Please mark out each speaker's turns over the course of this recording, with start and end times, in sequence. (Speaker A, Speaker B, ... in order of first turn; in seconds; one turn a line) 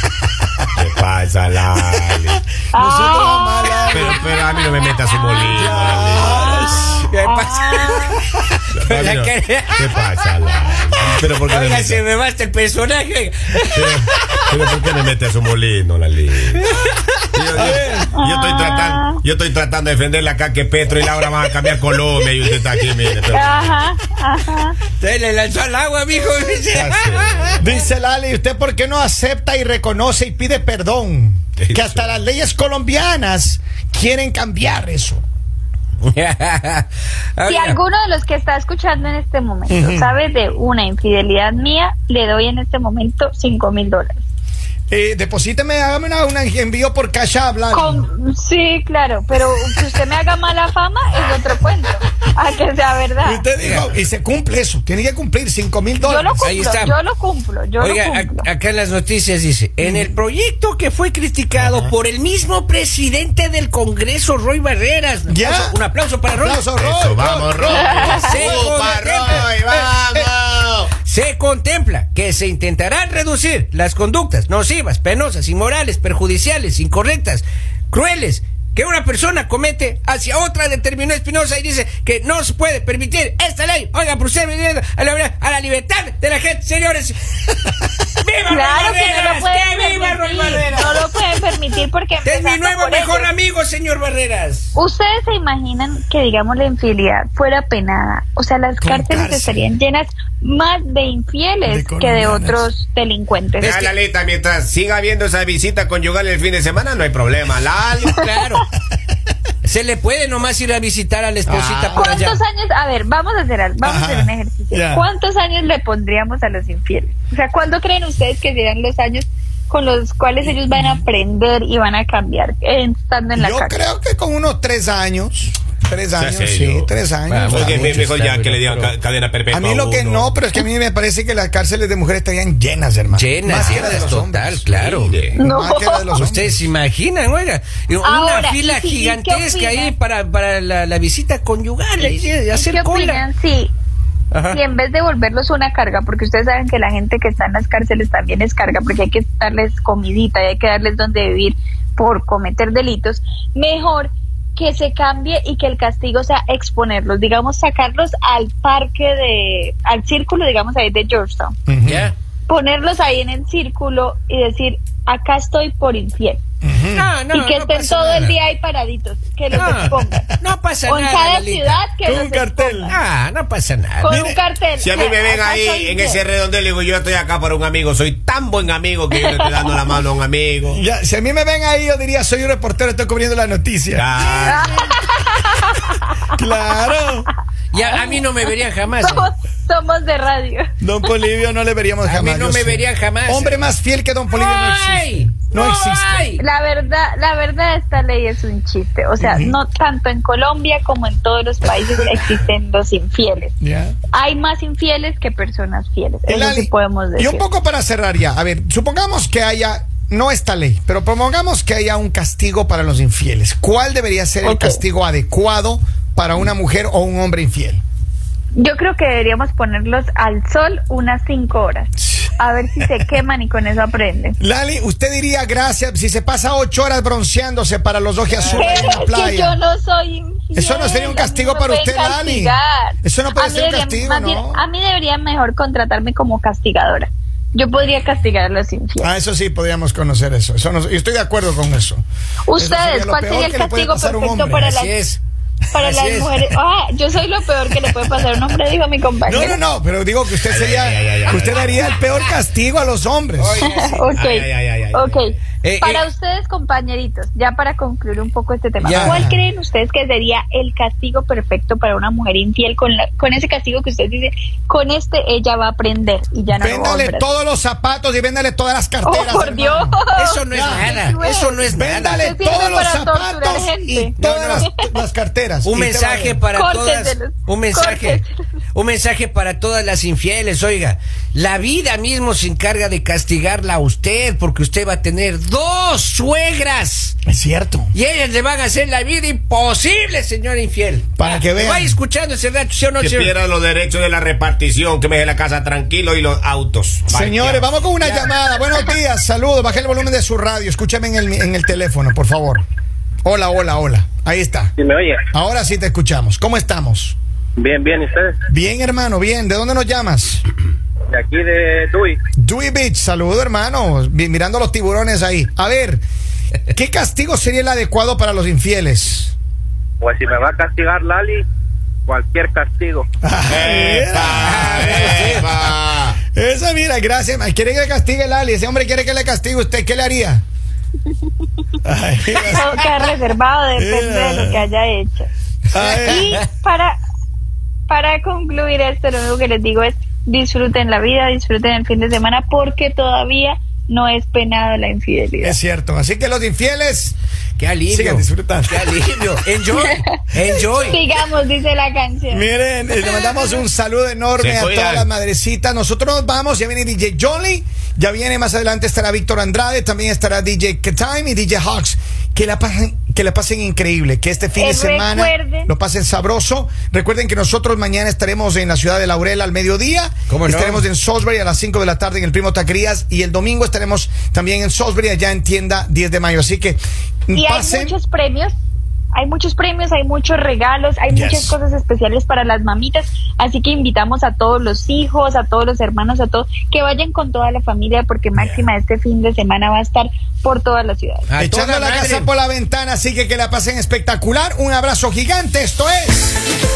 Speaker A: 0.8-2.4
Speaker B: 2.7-4.3
Speaker C: 2.7-8.2
Speaker A: 3.9-7.0
Speaker B: 5.3-7.1
Speaker D: 7.0-8.2
Speaker A: 8.7-12.0
Speaker D: 8.8-9.9
Speaker D: 11.0-14.7
Speaker A: 13.7-16.6
Speaker D: 16.6-18.0
Speaker A: 17.3-23.8
Speaker B: 17.6-18.1
Speaker C: 18.1-19.2
Speaker D: 22.2-23.1
Speaker C: 23.3-24.8
Speaker D: 25.0-27.6
Speaker A: 26.7-27.6
Speaker B: 27.6-35.2
Speaker A: 31.6-32.1
Speaker D: 36.0-37.8
Speaker C: 37.5-44.2
Speaker B: 39.7-40.1
Speaker B: 44.9-48.0
Speaker C: 47.7-53.4
Speaker B: 53.2-56.5
Speaker D: 53.6-53.9
Speaker C: 56.0-58.5
Speaker D: 56.4-57.0
Speaker D: 57.8-66.7
Speaker B: 59.8-60.1
Speaker A: 61.6-61.9
Speaker B: 65.3-65.8
Speaker B: 66.3-68.6
Speaker A: 66.8-70.9
Speaker C: 67.7-68.3
Speaker D: 67.7-69.5
Speaker B: 69.2-70.3
Speaker D: 71.0-91.1
Speaker C: 88.5-93.3
Speaker D: 92.2-94.7
Speaker C: 94.7-103.8
Speaker B: 98.8-99.6
Speaker B: 101.7-102.7
Speaker D: 103.6-103.9
Speaker A: 103.6-108.2
Speaker D: 108.0-108.7
Speaker D: 109.6-112.4
Speaker A: 111.5-112.1
Speaker C: 111.9-123.8
Speaker B: 113.8-115.1
Speaker B: 120.7-121.0
Speaker B: 123.3-128.0
Speaker A: 126.1-126.9
Speaker D: 127.3-128.9
Speaker A: 127.5-130.3
Speaker B: 129.5-134.6
Speaker D: 133.1-135.2
Speaker A: 133.5-134.1
Speaker A: 134.7-135.4
Speaker C: 135.3-136.1
Speaker B: 135.3-136.5
Speaker D: 136.1-143.2
Speaker C: 138.0-139.9
Speaker C: 142.5-143.7
Speaker D: 144.3-144.6
Speaker C: 144.5-161.6
Speaker B: 161.7-162.1
Speaker D: 161.8-162.1
Speaker C: 162.5-166.4
Speaker B: 166.6-167.1
Speaker D: 166.9-168.4
Speaker C: 167.3-170.3
Speaker B: 169.5-170.3
Speaker D: 169.6-171.8
Speaker C: 170.9-173.0
Speaker B: 172.0-173.0
Speaker D: 172.9-174.2
Speaker C: 174.0-176.2
Speaker B: 174.1-174.4
Speaker A: 174.8-180.8
Speaker C: 179.2-179.5
Speaker B: 180.7-184.1
Speaker A: 183.9-184.7
Speaker D: 184.2-184.9
Speaker C: 184.4-186.1
Speaker B: 186.3-187.3
Speaker D: 187.7-189.3
Speaker C: 187.8-188.2
Speaker C: 189.0-190.7
Speaker B: 190.8-196.3
Speaker D: 192.0-193.7
Speaker D: 194.3-196.4
Speaker C: 196.4-203.5
Speaker B: 199.2-199.6
Speaker B: 203.6-204.0
Speaker C: 204.1-207.4
Speaker B: 206.3-217.8
Speaker C: 214.4-214.8
Speaker C: 218.6-224.4
Speaker B: 224.4-229.6
Speaker D: 228.3-229.0
Speaker C: 228.4-239.1
Speaker B: 230.5-234.6
Speaker B: 239.0-242.0
Speaker C: 242.5-244.9
Speaker B: 242.5-244.8
Speaker D: 244.5-245.2
Speaker C: 245.7-249.6
Speaker D: 245.8-246.5
Speaker B: 247.8-248.1
Speaker B: 249.2-253.7
Speaker A: 250.5-252.2
Speaker D: 253.4-254.2
Speaker C: 253.6-267.3
Speaker A: 254.1-255.2
Speaker D: 255.6-256.0
Speaker D: 258.8-259.2
Speaker B: 259.0-259.4
Speaker B: 266.5-270.0
Speaker C: 269.0-271.6
Speaker D: 270.1-272.3
Speaker B: 270.5-270.9
Speaker B: 271.7-276.4
Speaker C: 272.1-274.6
Speaker D: 274.2-274.7
Speaker D: 275.6-278.2
Speaker C: 276.5-278.4
Speaker D: 278.7-287.1
Speaker B: 287.2-287.9
Speaker D: 287.9-293.3
Speaker B: 291.2-292.0
Speaker A: 293.0-297.7
Speaker B: 297.1-302.6
Speaker D: 298.0-298.3
Speaker B: 303.2-304.7
Speaker E: 304.8-305.2
Speaker B: 305.3-307.1
Speaker E: 307.6-308.3
Speaker A: 307.6-308.3
Speaker B: 308.5-310.4
Speaker E: 311.1-312.1
Speaker A: 311.1-312.1
Speaker B: 312.4-316.0
Speaker B: 316.7-319.3
Speaker E: 320.0-321.4
Speaker A: 320.7-321.1
Speaker E: 322.1-323.1
Speaker A: 322.2-322.5
Speaker B: 323.2-325.5
Speaker A: 323.5-326.2
Speaker D: 324.3-325.5
Speaker B: 326.3-330.4
Speaker B: 331.8-332.9
Speaker C: 332.4-335.3
Speaker B: 333.8-334.6
Speaker B: 335.7-336.4
Speaker D: 335.7-336.4
Speaker C: 336.1-337.0
Speaker C: 337.9-345.6
Speaker B: 345.4-347.1
Speaker D: 347.6-351.0
Speaker B: 347.9-348.8
Speaker C: 350.7-352.5
Speaker B: 352.3-377.9
Speaker C: 353.0-353.6
Speaker A: 354.4-355.1
Speaker C: 364.6-365.7
Speaker D: 370.3-370.8
Speaker C: 377.3-378.5
Speaker C: 379.1-391.3
Speaker B: 381.1-381.5
Speaker B: 388.4-388.7
Speaker D: 391.3-392.3
Speaker B: 391.4-396.4